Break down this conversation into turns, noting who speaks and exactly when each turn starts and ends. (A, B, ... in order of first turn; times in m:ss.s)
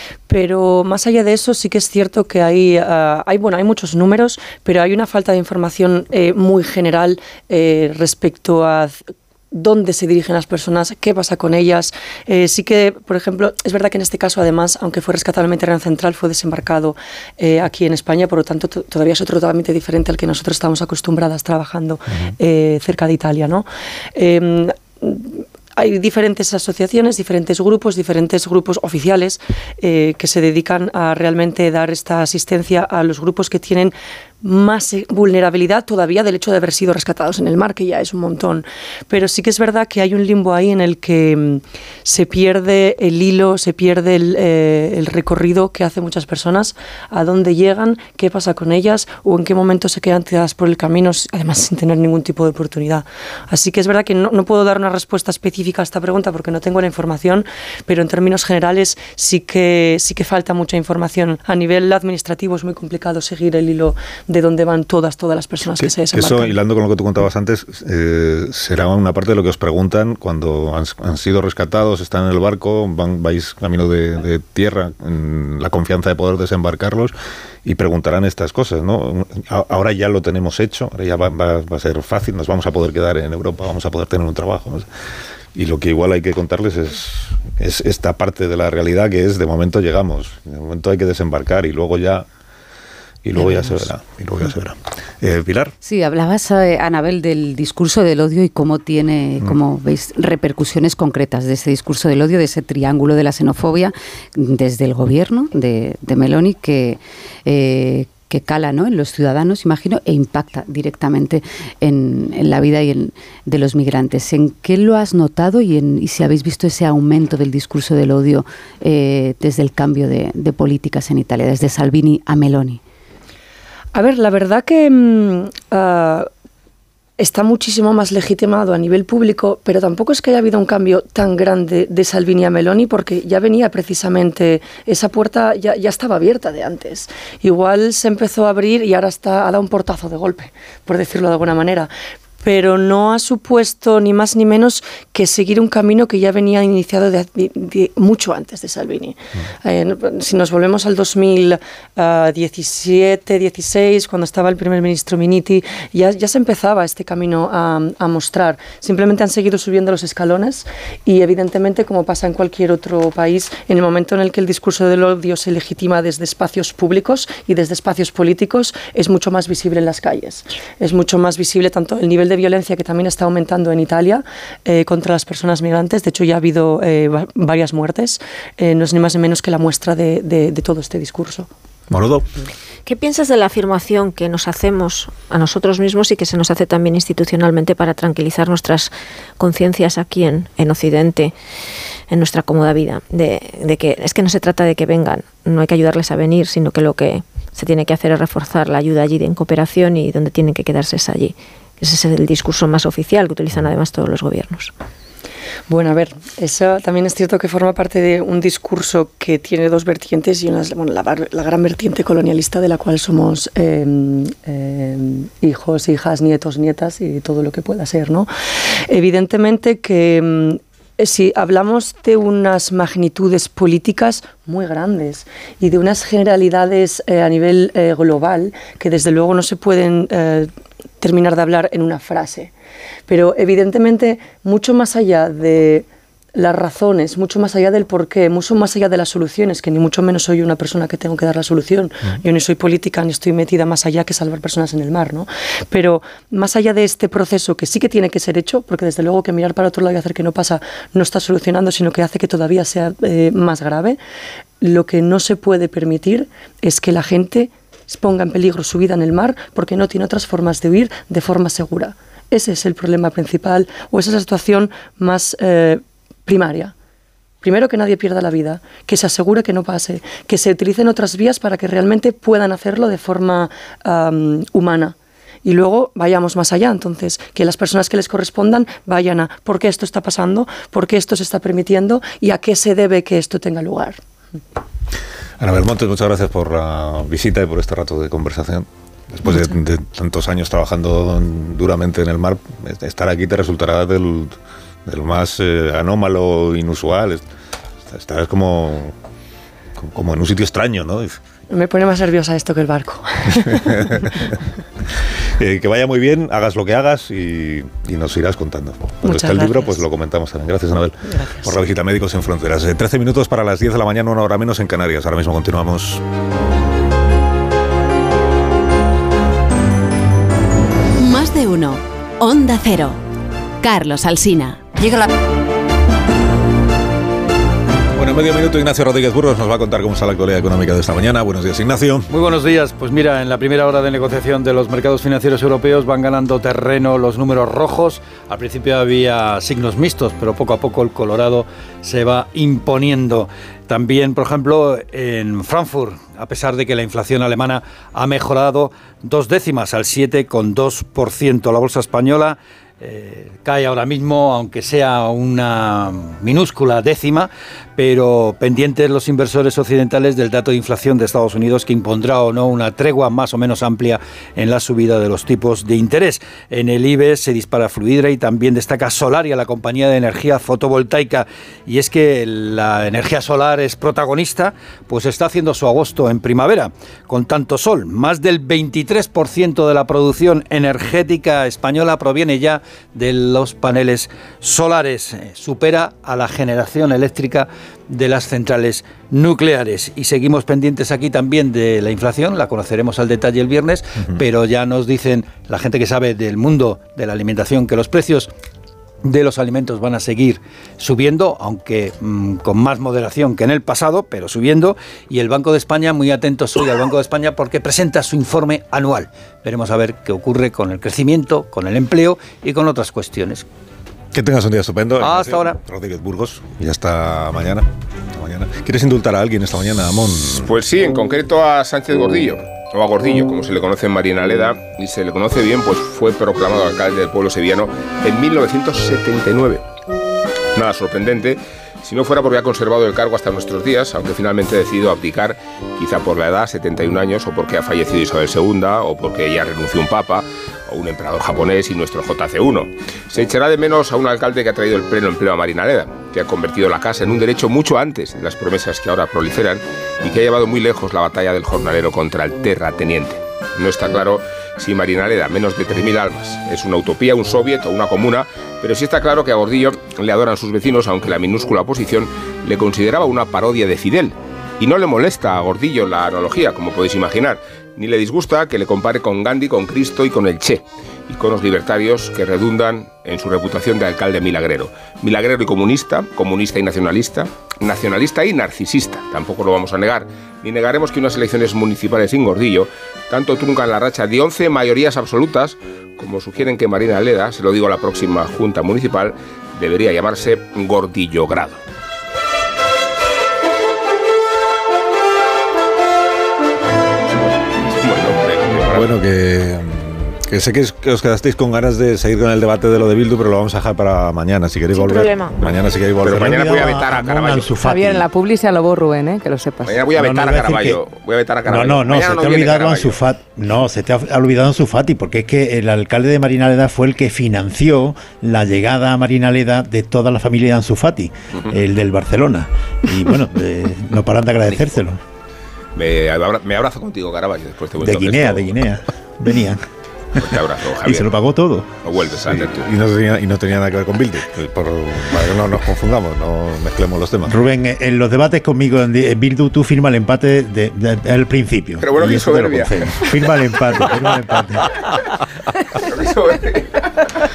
0:00.3-1:06.6 A
1:05.8-1:17.1 B
1:17.6-1:24.8 B
1:25.5-1:32.2 B
1:33.2-1:35.7 B
1:33.4-1:33.7 C
1:35.8-2:02.8 C
2:03.9-2:06.3 A
2:07.2-2:21.9 A
2:22.4-3:01.5 A
3:01.9-3:02.2 B
3:02.8-3:11.3 D
3:12.1-3:24.7 D
3:25.7-3:38.3 A
3:38.9-3:52.5 A
3:53.1-4:14.0 A
4:14.6-4:26.7 A
4:27.4-4:44.0 A
4:45.4-4:54.3 B
4:54.8-4:57.2 B
4:57.8-4:58.9 B
4:59.8-5:01.2 B
5:01.5-5:04.2 A
5:03.6-5:04.3 B
5:05.4-5:16.0 B
5:09.0-5:09.8 A
5:11.1-5:11.5 A
5:21.0-5:23.0 E
5:23.6-5:25.1 E
5:28.0-5:32.1 B
5:32.1-6:38.3 F
6:39.0-6:53.4 F
6:54.1-7:00.5 B
6:55.0-6:55.6 F
7:00.3-7:09.6 G
7:10.5-8:11.6 G
8:17.8-8:18.9 G
8:18.7-8:26.6 B
8:24.7-8:25.4 D
8:26.0-8:27.5 G
8:26.2-8:28.0 H
8:27.6-8:29.8 I
8:29.6-8:33.0 G
8:29.9-8:30.8 H
8:31.4-8:45.0 H
8:45.8-8:48.5 G
8:47.8-8:49.6 H
8:50.2-8:51.1 G
8:50.8-8:51.7 H
8:51.8-8:52.6 G
8:52.2-8:57.3 B
8:57.3-9:04.7 H
9:01.8-9:02.9 G
9:05.9-9:06.9 G